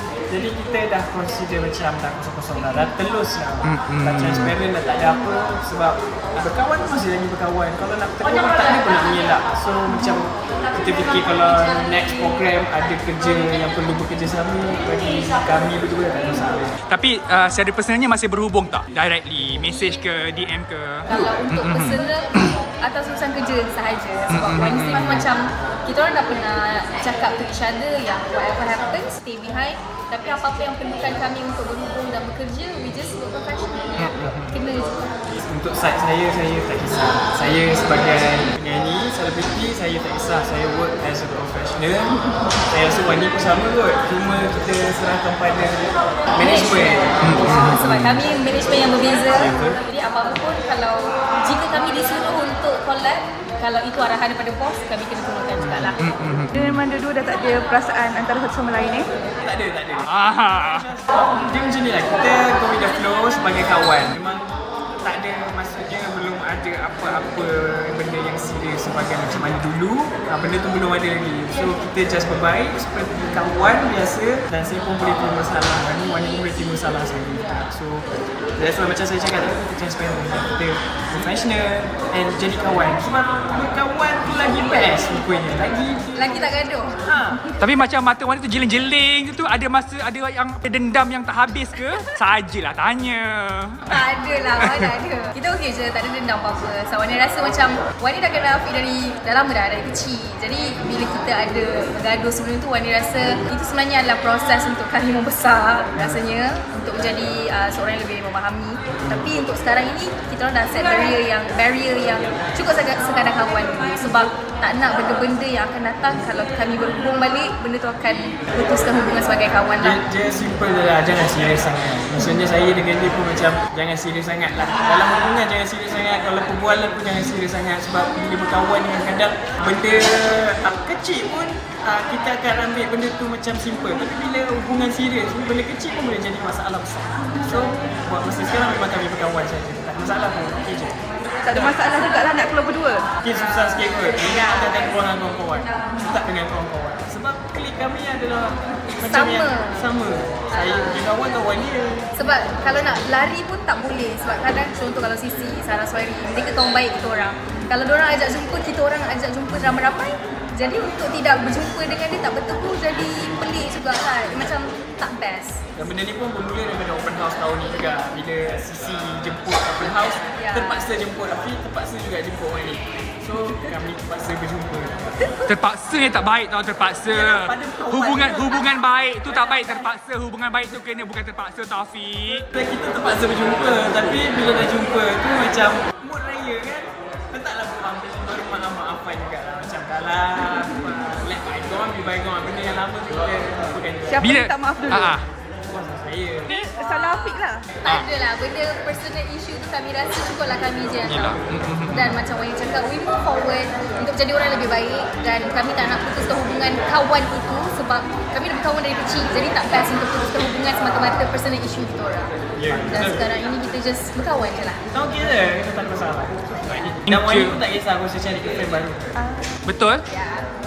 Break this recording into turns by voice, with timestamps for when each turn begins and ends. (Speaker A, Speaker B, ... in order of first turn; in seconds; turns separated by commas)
Speaker A: 0.3-16.7, Speaker B: 3.6-4.5, Speaker B: 16.9-22.5, Speaker C: 21.1-35.1, Speaker B: 24.3-25.3, Speaker B: 34.0-34.5, Speaker A: 35.4-47.4, Speaker C: 46.4-56.0, Speaker B: 47.2-48.2, Speaker A: 49.4-49.8, Speaker A: 55.6-56.0, Speaker B: 56.0-56.8, Speaker D: 56.5-59.1, Speaker A: 59.4-64.5, Speaker B: 60.1-60.9, Speaker A: 65.0-78.0, Speaker A: 78.6-86.5, Speaker C: 86.2-87.0, Speaker A: 87.0-87.5, Speaker B: 87.6-94.0, Speaker C: 93.9-120.0, Speaker B: 94.6-94.9, Speaker A: 119.8-141.8, Speaker D: 141.4-143.1, Speaker A: 143.2-152.1, Speaker C: 149.0-149.8, Speaker C: 150.5-151.0, Speaker C: 152.1-165.6, Speaker A: 165.8-175.1, Speaker C: 170.3-170.9, Speaker B: 175.4-182.5, Speaker A: 177.1-178.7, Speaker A: 182.5-194.4, Speaker D: 194.1-195.1, Speaker B: 194.2-195.3, Speaker A: 195.7-196.7, Speaker D: 196.5-197.7, Speaker C: 196.8-212.3, Speaker B: 201.1-202.2, Speaker A: 212.6-213.3, Speaker C: 212.8-214.8, Speaker A: 214.9-219.1, Speaker B: 216.7-217.6, Speaker D: 219.2-219.5, Speaker B: 219.7-220.1